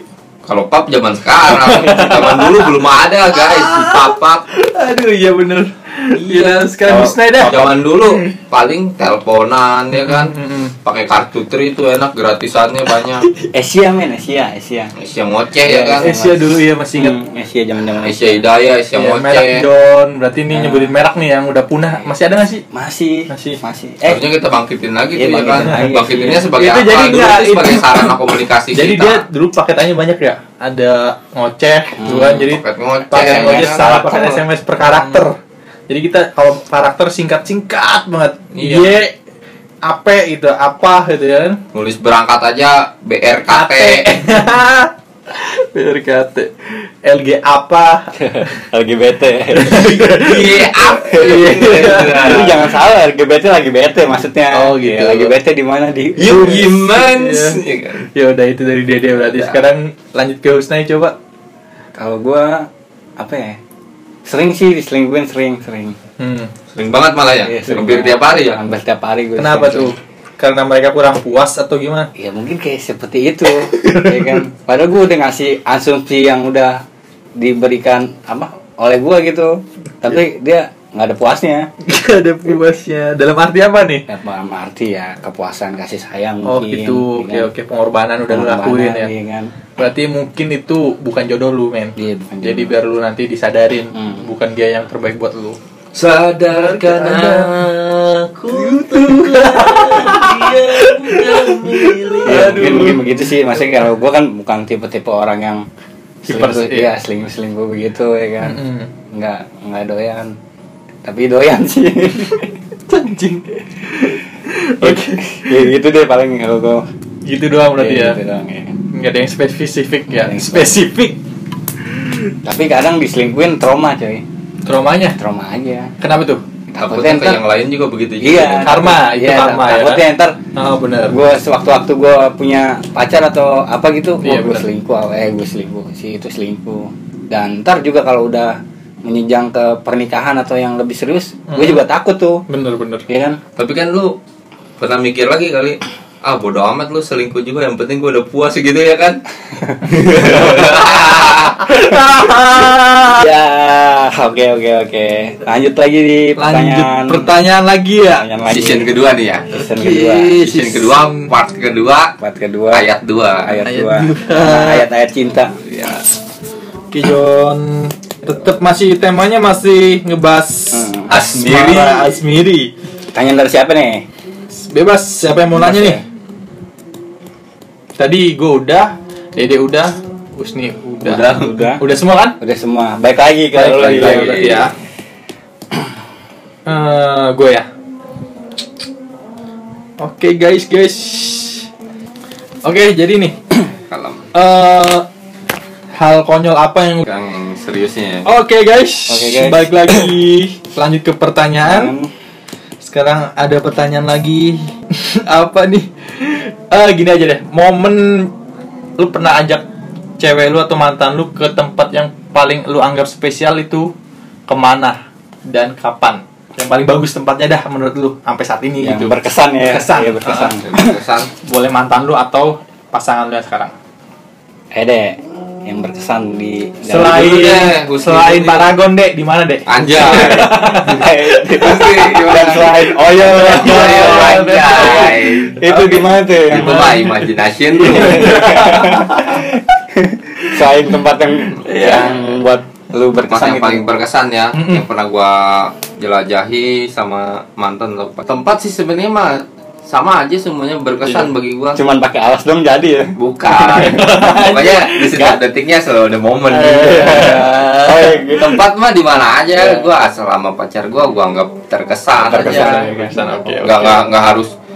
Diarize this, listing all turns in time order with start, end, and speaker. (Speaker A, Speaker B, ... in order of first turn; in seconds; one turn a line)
Speaker A: 0.5-4.4
Speaker B: 1.5-8.3
Speaker A: 6.2-6.6
Speaker C: 6.8-7.2
Speaker A: 7.4-13.3
Speaker B: 9.9-10.7
Speaker C: 13.5-14.9
Speaker A: 14.9-16.1
Speaker C: 15.6-18.4
Speaker B: 16.0-17.2
Speaker A: 18.0-19.6
Speaker B: 18.9-22.6
Speaker C: 20.5-20.9
Speaker C: 22.7-24.2
Speaker B: 23.3-23.6
Speaker A: 24.0-29.2
Speaker C: 25.1-26.5
Speaker B: 25.5-28.1
Speaker B: 28.7-35.3
Speaker C: 32.0-32.5
Speaker A: 32.3-34.4
Speaker B: 35.9-39.1
Speaker A: 38.5-39.0
Speaker B: 39.8-41.6
Speaker A: 41.7-44.1
Speaker B: 43.5-48.6
Speaker C: 48.2-50.0
Speaker B: 49.5-52.7
Speaker A: 50.1-52.7
Speaker C: 51.1-56.7
Speaker B: 54.5-55.3
Speaker A: 56.2-58.0
Speaker B: 56.2-61.1
Speaker A: 59.2-59.6
Speaker C: 61.9-63.6
Speaker C: 64.2-66.0
Speaker B: 66.2-66.5
Speaker A: 66.7-68.6
Speaker C: 67.4-69.9
Speaker B: 69.4-72.1
Speaker C: 72.2-76.8
Speaker B: 73.5-74.4
Speaker C: 77.4-81.7
Speaker B: 81.8-84.0
Speaker C: 84.1-87.5
Speaker B: 86.4-89.1
Speaker C: 88.3-89.5
Speaker B: 89.8-95.6
Speaker C: 92.0-92.7
Speaker C: 93.9-94.2
Speaker A: 95.9-102.9
Speaker B: 96.5-97.5
Speaker B: 98.5-103.8
Speaker C: 102.2-105.7
Speaker C: 106.2-110.3
Speaker B: 106.3-106.9
Speaker B: 108.4-108.9
Speaker C: 111.0-112.5
Speaker B: 112.9-115.6
Speaker C: 114.8-116.8
Speaker B: 117.2-118.2
Speaker C: 117.8-118.8
Speaker B: 118.9-121.2
Speaker C: 120.1-120.8
Speaker B: 121.9-122.3
Speaker C: 122.4-124.2
Speaker B: 124.7-125.2
Speaker C: 125.2-125.9
Speaker B: 126.0-126.4
Speaker C: 126.7-127.4
Speaker A: 126.7-128.8
Speaker C: 128.2-130.3
Speaker B: 128.6-130.0
Speaker B: 130.6-131.1
Speaker C: 131.1-142.4
Speaker B: 134.2-134.6
Speaker B: 141.5-141.8
Speaker B: 142.5-143.0
Speaker C: 143.1-143.4
Speaker A: 143.6-144.2
Speaker A: 144.8-149.2
Speaker A: 149.8-151.7
Speaker B: 150.2-153.2
Speaker C: 153.0-157.3
Speaker B: 156.4-158.2
Speaker C: 158.1-158.9
Speaker A: 158.5-159.6
Speaker C: 159.5-160.4
Speaker B: 159.7-161.3
Speaker A: 160.3-162.1
Speaker C: 162.2-162.8
Speaker A: 162.7-163.6
Speaker C: 163.4-165.6
Speaker B: 163.6-164.8
Speaker A: 165.6-166.0
Speaker B: 166.9-172.7
Speaker C: 170.7-171.1
Speaker A: 171.1-172.0
Speaker C: 173.1-174.1
Speaker B: 174.7-176.0
Speaker C: 175.3-176.0
Speaker B: 178.0-182.3
Speaker A: 181.0-181.5
Speaker C: 181.2-181.8
Speaker C: 182.4-184.6
Speaker B: 183.5-184.7
Speaker A: 183.7-184.7
Speaker B: 186.7-187.7
Speaker B: 190.0-191.7
Speaker B: 192.6-193.3
Speaker A: 193.9-194.3
Speaker B: 194.3-195.1
Speaker B: 196.0-197.0
Speaker A: 197.0-198.3
Speaker B: 198.2-201.9
Speaker C: 199.1-200.1
Speaker C: 201.6-202.1
Speaker B: 202.8-208.3
Speaker B: 209.0-209.6
Speaker B: 210.2-213.9
Speaker B: 214.5-220.2
Speaker C: 218.8-221.0
Speaker A: 220.2-221.3
Speaker B: 221.4-223.7
Speaker C: 224.7-227.6
Speaker B: 226.8-231.1
Speaker A: 227.1-228.7
Speaker A: 229.7-238.6
Speaker C: 230.1-237.0
Speaker B: 233.2-235.4
Speaker B: 236.6-237.2
Speaker B: 237.8-239.5
Speaker C: 237.8-243.8
Speaker B: 240.4-240.8
Speaker B: 241.6-242.2
Speaker A: 243.2-251.8
Speaker B: 244.5-244.8
Speaker C: 251.8-253.1
Speaker A: 253.2-257.7
Speaker B: 253.5-255.4
Speaker B: 256.5-258.2
Speaker C: 257.0-258.6
Speaker A: 258.3-262.9
Speaker C: 262.2-263.4
Speaker B: 262.3-264.0
Speaker A: 263.6-264.5